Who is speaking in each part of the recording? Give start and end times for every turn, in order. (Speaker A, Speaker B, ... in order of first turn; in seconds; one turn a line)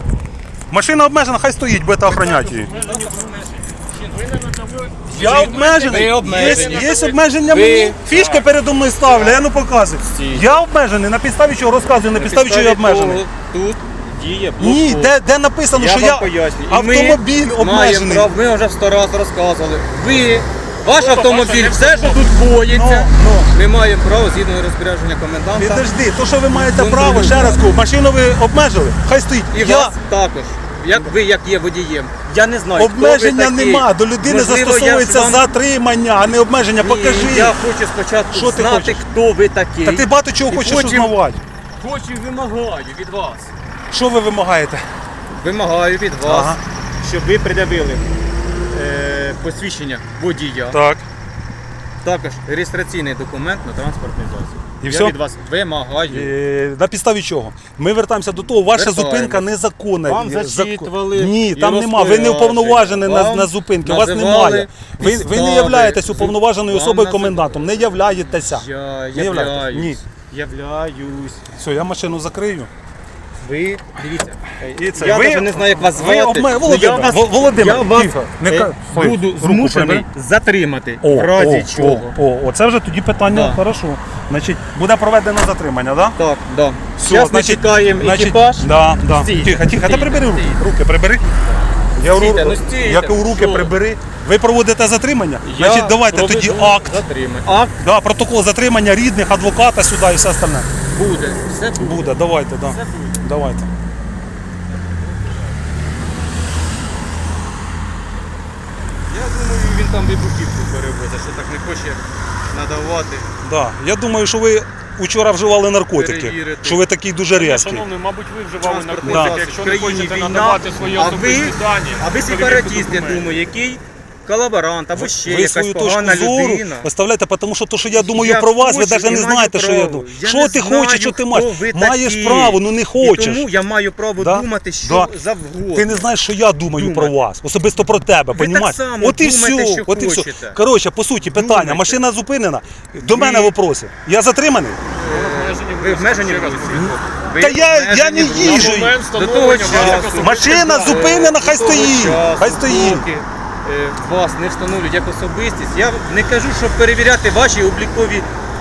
Speaker A: 0.7-2.7
Speaker B: 2.0-7.2
Speaker C: 2.2-3.9
Speaker A: 5.1-13.2
Speaker C: 5.1-8.0
Speaker B: 8.1-8.5
Speaker C: 9.0-9.4
Speaker C: 10.1-10.6
Speaker C: 12.1-15.1
Speaker A: 14.6-18.3
Speaker C: 15.7-25.9
Speaker B: 20.9-22.4
Speaker A: 22.6-23.5
Speaker A: 25.6-29.9
Speaker C: 26.5-27.7
Speaker C: 29.5-35.5
Speaker A: 32.8-37.6
Speaker C: 36.8-41.1
Speaker A: 38.3-39.0
Speaker A: 39.8-41.4
Speaker C: 41.8-43.5
Speaker A: 43.9-44.8
Speaker C: 45.3-48.0
Speaker A: 46.2-46.6
Speaker C: 48.7-50.8
Speaker A: 50.7-51.0
Speaker C: 52.0-56.3
Speaker A: 54.8-55.2
Speaker A: 56.1-70.0
Speaker C: 58.6-59.5
Speaker C: 60.0-71.4
Speaker A: 71.5-72.7
Speaker C: 73.4-82.1
Speaker A: 74.7-80.0
Speaker A: 81.0-86.2
Speaker C: 83.3-83.6
Speaker C: 86.2-90.6
Speaker A: 87.0-91.3
Speaker A: 91.9-97.0
Speaker C: 92.0-93.7
Speaker C: 95.4-97.8
Speaker A: 97.8-100.7
Speaker C: 100.9-103.2
Speaker A: 101.8-103.7
Speaker C: 104.7-105.5
Speaker C: 109.1-113.3
Speaker A: 113.4-117.8
Speaker C: 115.9-116.8
Speaker B: 117.3-123.4
Speaker C: 118.6-126.9
Speaker A: 119.0-119.3
Speaker A: 124.9-133.5
Speaker C: 127.9-136.1
Speaker A: 134.2-135.1
Speaker A: 135.7-144.8
Speaker C: 136.7-137.1
Speaker C: 138.3-140.6
Speaker C: 141.2-142.0
Speaker C: 143.1-143.5
Speaker C: 144.9-158.3
Speaker B: 145.0-147.0
Speaker A: 146.7-149.0
Speaker B: 148.3-151.3
Speaker A: 149.6-153.1